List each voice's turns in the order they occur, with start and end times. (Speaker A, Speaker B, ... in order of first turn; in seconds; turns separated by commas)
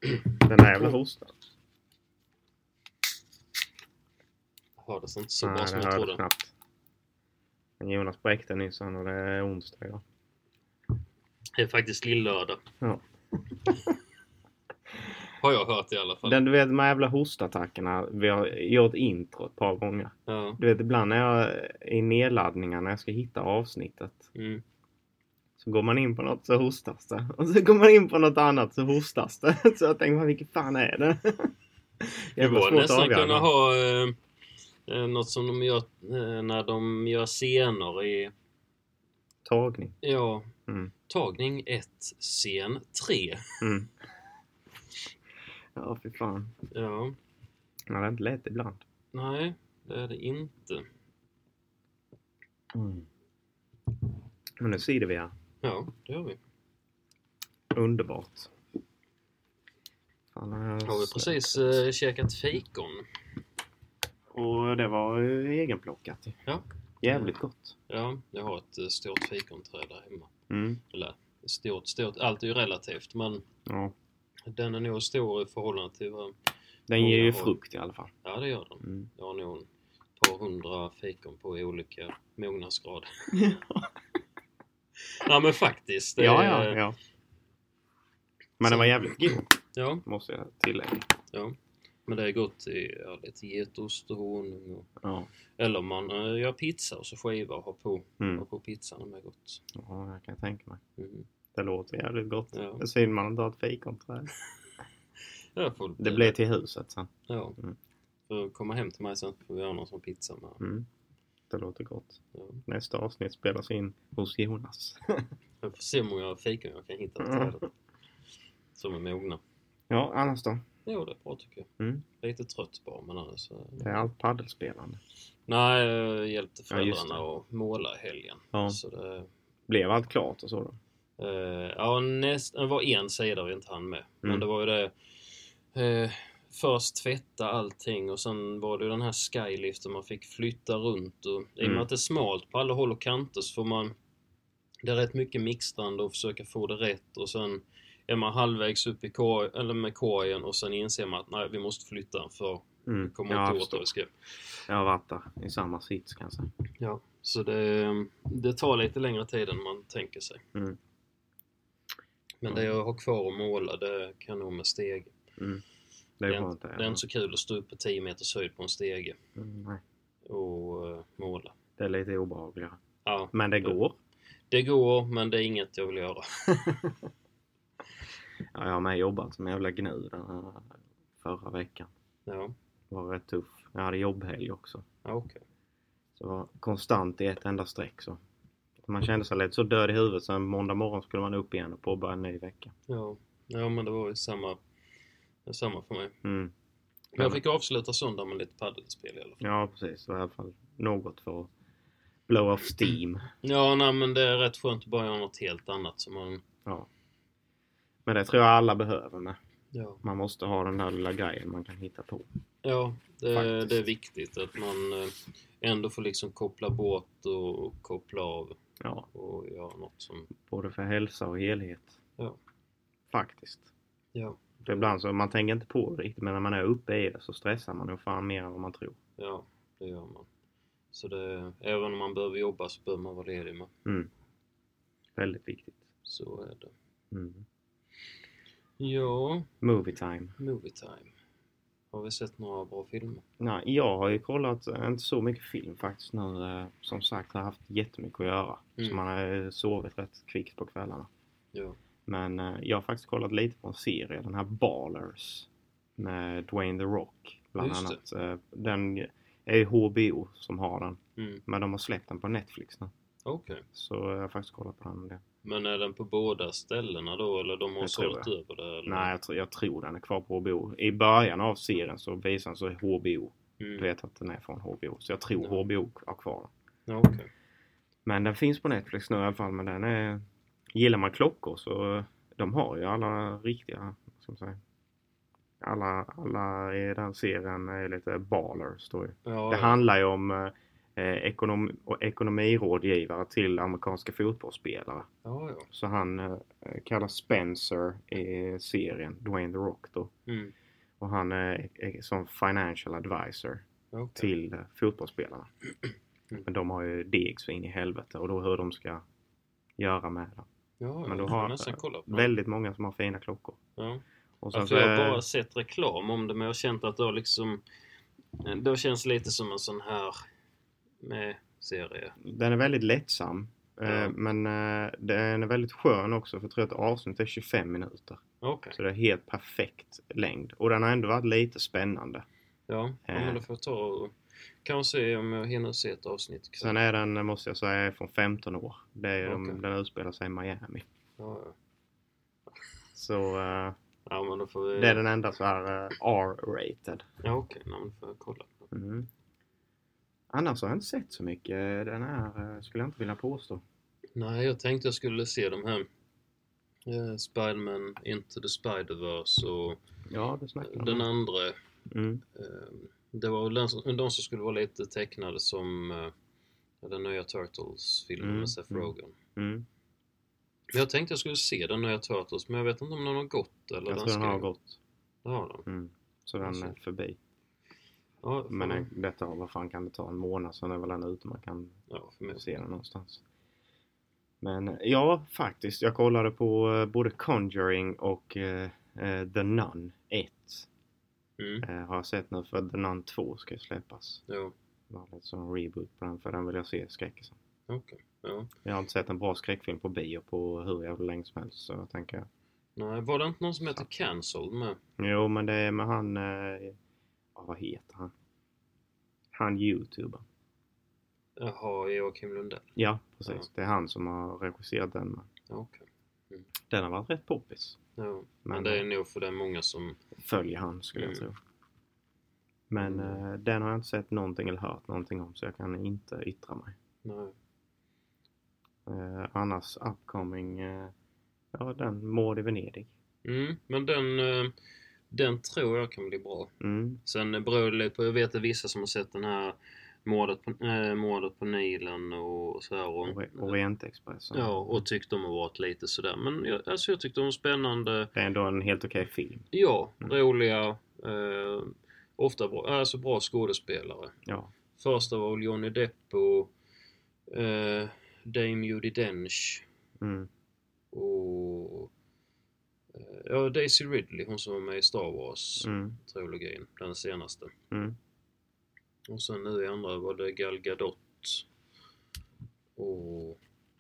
Speaker A: 0.4-1.3, Speaker B: 4.8-6.2, Speaker A: 5.4-6.5, Speaker A: 7.8-10.0, Speaker B: 11.6-12.6, Speaker A: 12.8-13.8, Speaker B: 15.4-16.4, Speaker A: 16.2-24.3, Speaker B: 20.3-20.6, Speaker B: 24.4-24.6, Speaker A: 25.6-33.5, Speaker B: 32.4-34.2, Speaker B: 34.9-38.3, Speaker A: 39.5-40.0, Speaker B: 40.0-40.5, Speaker B: 41.1-43.6, Speaker A: 43.6-43.9, Speaker A: 45.8-46.5, Speaker B: 46.7-47.2, Speaker A: 47.9-48.8, Speaker B: 49.1-50.9, Speaker A: 52.7-53.1, Speaker A: 54.6-55.3, Speaker B: 55.6-56.4, Speaker A: 57.7-58.5, Speaker A: 60.3-61.8, Speaker B: 60.9-63.0, Speaker A: 64.3-66.4, Speaker B: 66.5-67.4, Speaker A: 67.0-67.8, Speaker B: 67.9-70.3, Speaker A: 70.5-70.8, Speaker B: 70.9-73.4, Speaker A: 73.7-74.0, Speaker B: 74.5-76.3, Speaker A: 76.9-78.1, Speaker B: 77.0-77.5, Speaker B: 78.2-83.3, Speaker A: 78.8-79.1, Speaker A: 83.3-84.0, Speaker B: 85.1-86.8, Speaker A: 86.2-87.0, Speaker A: 88.6-89.5, Speaker B: 88.6-90.0, Speaker A: 90.0-91.1, Speaker B: 91.3-94.9, Speaker A: 95.0-95.3, Speaker B: 95.6-99.6, Speaker A: 98.2-98.5, Speaker A: 99.7-100.8, Speaker B: 101.0-101.3, Speaker A: 101.5-104.3, Speaker B: 102.5-102.8, Speaker B: 105.6-106.4, Speaker A: 106.0-107.8, Speaker B: 107.3-107.6, Speaker B: 108.3-110.6, Speaker A: 110.6-110.9, Speaker A: 111.5-115.3, Speaker B: 112.3-112.6, Speaker B: 115.6-117.7, Speaker A: 117.2-117.5, Speaker B: 118.8-119.4, Speaker A: 119.9-120.6, Speaker B: 120.9-124.1, Speaker A: 121.8-122.0, Speaker A: 123.8-125.0, Speaker B: 125.5-129.3, Speaker A: 126.7-127.2, Speaker A: 128.5-128.8, Speaker A: 129.7-130.8, Speaker B: 131.2-143.9, Speaker A: 141.6-141.9, Speaker B: 144.8-154.1, Speaker A: 152.9-153.9, Speaker A: 154.7-156.5, Speaker B: 156.8-160.4, Speaker B: 162.4-165.2, Speaker A: 165.4-165.6, Speaker A: 166.2-167.0, Speaker B: 166.3-169.2, Speaker A: 169.4-169.8, Speaker B: 170.3-171.6, Speaker A: 171.8-172.8, Speaker B: 173.1-173.8, Speaker A: 173.3-173.9, Speaker B: 174.5-176.9, Speaker A: 178.5-181.9, Speaker B: 182.3-182.6, Speaker A: 182.9-184.8, Speaker B: 185.0-185.4, Speaker A: 186.2-188.2, Speaker A: 188.8-192.7, Speaker B: 192.9-194.6, Speaker B: 195.5-196.2, Speaker A: 196.2-196.5, Speaker B: 197.2-199.4, Speaker A: 199.4-201.5, Speaker A: 202.3-203.3, Speaker B: 203.4-206.4, Speaker A: 208.1-209.4, Speaker B: 209.7-210.0, Speaker A: 210.0-212.3, Speaker B: 212.6-218.6, Speaker A: 213.3-213.8, Speaker A: 218.8-219.1, Speaker B: 219.1-220.3, Speaker A: 220.4-222.0, Speaker A: 223.1-223.7, Speaker B: 224.2-224.9, Speaker A: 224.7-229.0, Speaker B: 229.2-230.3, Speaker B: 230.9-233.7, Speaker A: 233.8-234.1, Speaker A: 235.2-235.8, Speaker B: 236.1-236.7, Speaker A: 237.1-237.4, Speaker B: 238.8-239.5, Speaker A: 239.6-240.4, Speaker B: 240.4-241.1, Speaker B: 241.9-243.2, Speaker A: 243.4-251.1, Speaker A: 252.1-262.9, Speaker B: 257.6-258.0, Speaker B: 261.2-261.4, Speaker B: 263.2-263.6, Speaker A: 263.7-265.2, Speaker B: 265.4-269.1, Speaker A: 267.8-268.3, Speaker A: 268.9-276.5, Speaker B: 273.6-273.9, Speaker B: 276.9-277.3, Speaker A: 278.1-284.6, Speaker A: 285.6-295.1, Speaker B: 289.2-289.8, Speaker B: 295.2-295.7, Speaker A: 295.7-300.1, Speaker B: 300.3-300.5, Speaker A: 301.0-303.6, Speaker B: 303.9-304.3, Speaker A: 304.2-305.5, Speaker A: 306.4-309.0, Speaker A: 309.8-310.5, Speaker B: 310.8-312.3, Speaker A: 311.1-313.6, Speaker B: 313.8-317.6, Speaker A: 314.4-315.2, Speaker B: 318.3-320.2, Speaker B: 321.0-322.2, Speaker A: 322.2-328.2, Speaker B: 323.9-324.1, Speaker B: 328.4-328.8, Speaker A: 328.8-332.2, Speaker B: 332.7-336.8, Speaker A: 333.1-333.4, Speaker A: 336.6-340.9, Speaker B: 339.2-339.6, Speaker B: 341.2-341.6, Speaker A: 342.9-343.8, Speaker B: 344.1-345.1, Speaker A: 344.8-347.1, Speaker B: 347.2-348.7, Speaker A: 348.7-349.1, Speaker A: 350.3-353.6, Speaker B: 354.2-355.9, Speaker B: 356.9-359.8, Speaker A: 360.1-361.1, Speaker B: 360.6-361.6, Speaker A: 361.9-362.2, Speaker B: 362.3-366.1, Speaker B: 366.8-369.2, Speaker A: 368.2-369.7, Speaker B: 370.7-374.5, Speaker A: 373.9-374.8, Speaker B: 375.2-375.7, Speaker A: 375.7-377.2, Speaker B: 376.4-376.8, Speaker B: 378.2-378.9, Speaker A: 378.5-381.8, Speaker B: 381.9-382.4, Speaker A: 382.4-383.2, Speaker A: 384.4-390.7, Speaker B: 391.4-391.7, Speaker A: 391.6-394.2, Speaker B: 394.3-394.5, Speaker A: 394.9-397.4, Speaker B: 397.7-398.5, Speaker A: 398.6-402.3, Speaker B: 402.8-404.8, Speaker A: 405.0-406.8, Speaker A: 407.4-408.1, Speaker A: 409.3-410.2, Speaker B: 411.4-412.7, Speaker A: 412.8-415.3, Speaker B: 415.5-416.5, Speaker A: 416.7-417.8, Speaker B: 418.0-420.0, Speaker A: 418.5-418.8, Speaker A: 420.2-421.4, Speaker B: 420.9-421.3, Speaker A: 422.7-426.8, Speaker B: 422.8-423.2, Speaker B: 427.0-427.3, Speaker A: 428.9-430.9, Speaker A: 431.5-432.9, Speaker B: 433.2-434.5, Speaker B: 435.1-436.5, Speaker A: 436.6-437.0, Speaker B: 437.1-443.6, Speaker A: 443.1-444.8, Speaker B: 444.3-448.1, Speaker A: 448.1-449.5, Speaker B: 449.5-454.1, Speaker A: 454.3-454.5, Speaker B: 454.8-456.5, Speaker B: 457.3-459.6, Speaker A: 460.0-460.3, Speaker B: 460.9-461.9, Speaker B: 462.9-467.5, Speaker A: 465.6-466.0, Speaker A: 467.7-468.0, Speaker B: 469.1-471.5, Speaker B: 472.8-473.4